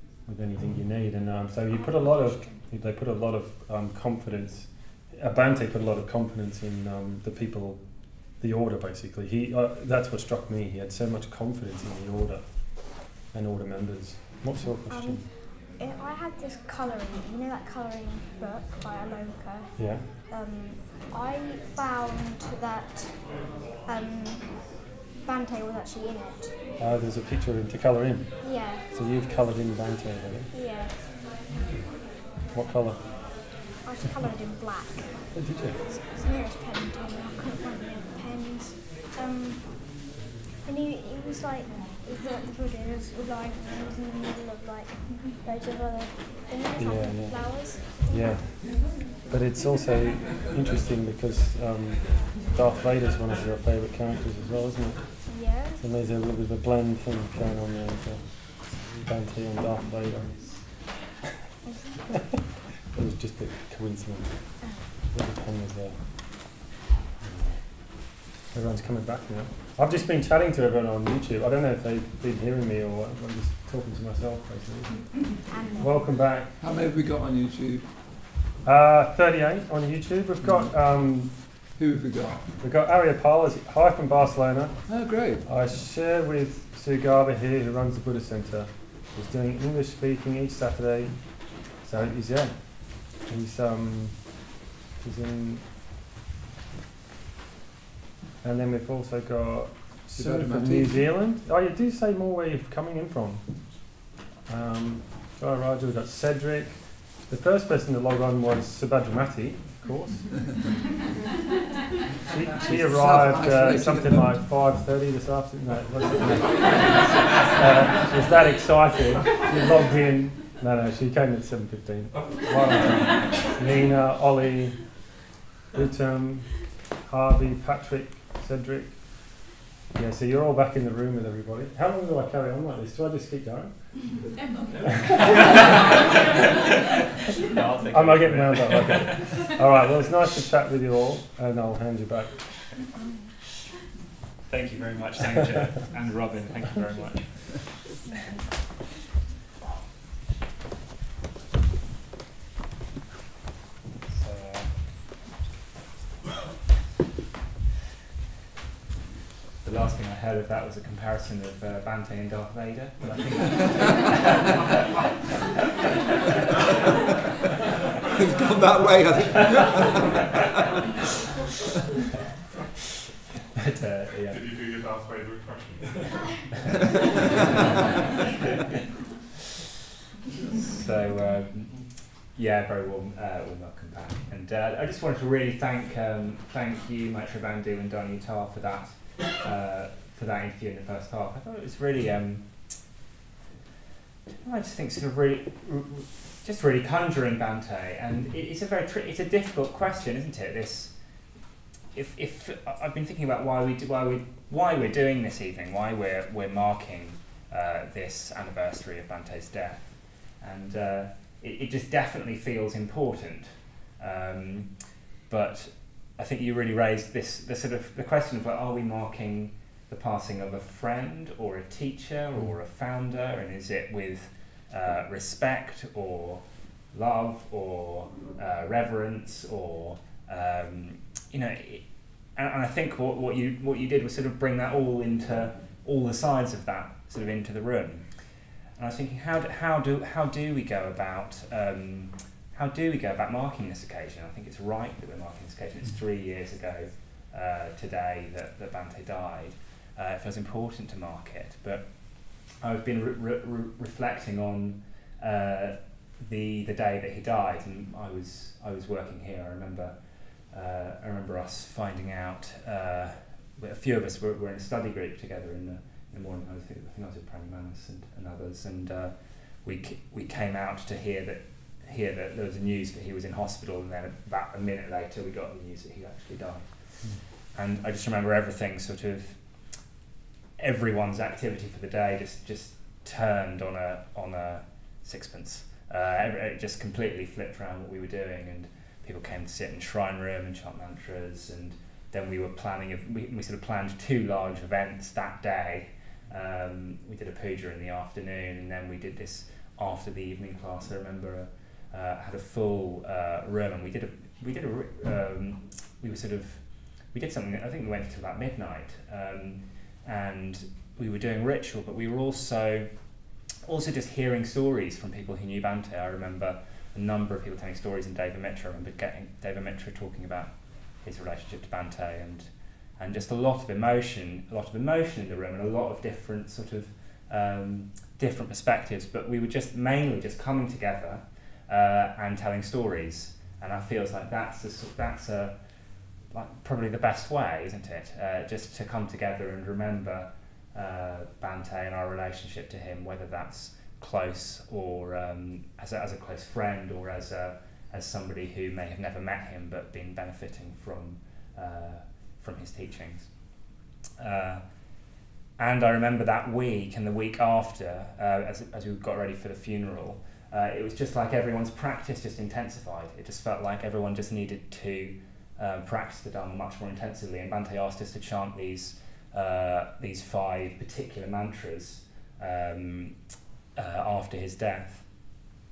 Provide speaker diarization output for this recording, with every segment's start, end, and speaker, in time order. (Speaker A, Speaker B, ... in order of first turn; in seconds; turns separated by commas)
Speaker A: 0.2-15.2, Speaker B: 1.7-2.6, Speaker B: 14.9-23.3, Speaker A: 19.8-20.1, Speaker B: 23.9-24.6, Speaker B: 25.2-26.5, Speaker A: 26.8-30.5, Speaker B: 28.4-28.8, Speaker B: 30.5-31.0, Speaker A: 32.5-33.2, Speaker B: 33.8-35.3, Speaker A: 35.4-35.8, Speaker B: 35.9-39.9, Speaker B: 40.6-48.4, Speaker A: 46.8-60.7, Speaker B: 55.3-55.8, Speaker A: 62.9-66.0, Speaker A: 67.2-76.5, Speaker B: 75.5-76.1, Speaker C: 76.6-77.8, Speaker A: 78.6-81.3, Speaker C: 80.4-80.7, Speaker C: 81.7-82.4, Speaker A: 82.6-84.8, Speaker C: 84.9-85.5, Speaker A: 85.4-94.5, Speaker A: 95.0-95.7, Speaker A: 98.4-110.6, Speaker C: 100.1-101.1, Speaker A: 112.3-125.1, Speaker C: 112.6-114.4, Speaker A: 125.7-134.2, Speaker D: 137.6-139.3, Speaker A: 137.9-142.4, Speaker D: 144.5-147.8, Speaker D: 154.1-155.0, Speaker D: 159.6-164.5, Speaker C: 168.1-170.0, Speaker D: 173.6-174.4, Speaker E: 174.3-176.4, Speaker D: 177.6-177.9, Speaker D: 180.5-192.9, Speaker D: 194.3-201.0, Speaker D: 201.9-238.1, Speaker D: 238.7-279.9, Speaker D: 280.6-354.6, Speaker D: 355.6-373.2, Speaker D: 373.7-375.5